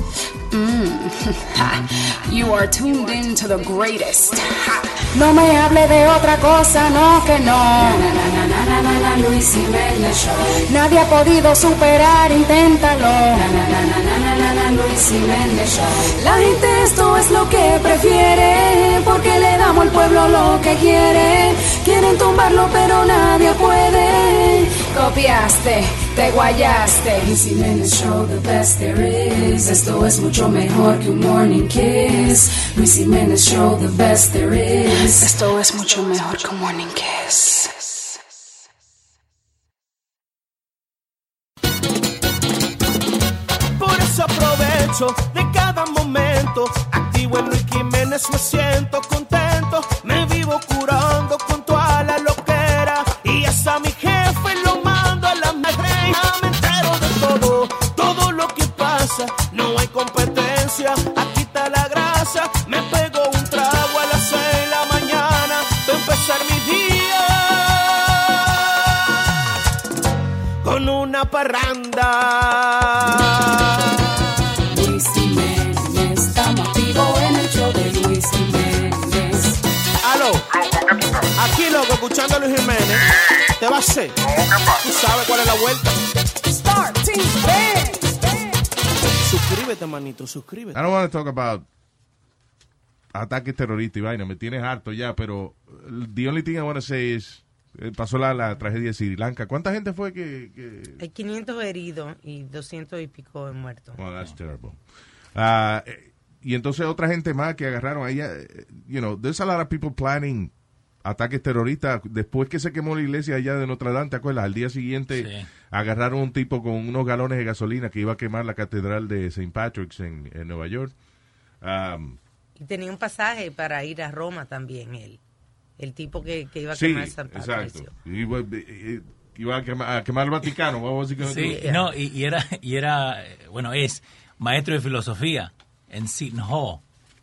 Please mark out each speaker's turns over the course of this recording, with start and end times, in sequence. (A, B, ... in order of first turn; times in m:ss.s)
0:00.5-0:38.2 A
0:43.8-1:09.2 B
1:10.6-1:14.5 B
1:14.7-1:19.6 A
1:20.0-1:20.5 B
1:21.4-1:24.2 B
1:24.7-1:26.0 B
1:26.5-1:28.3 A
1:29.2-1:30.6 B
1:30.7-1:31.6 C
1:33.1-1:41.0 C
1:41.0-1:44.0 D
1:44.0-1:44.8 C
1:45.3-1:50.5 C
1:51.0-2:00.9 C
1:55.1-1:55.5 E
2:01.6-2:02.2 C
2:02.6-2:05.2 D
2:05.8-2:07.9 D
2:06.7-2:11.6 C
2:11.2-2:16.8 E
2:11.3-2:11.9 D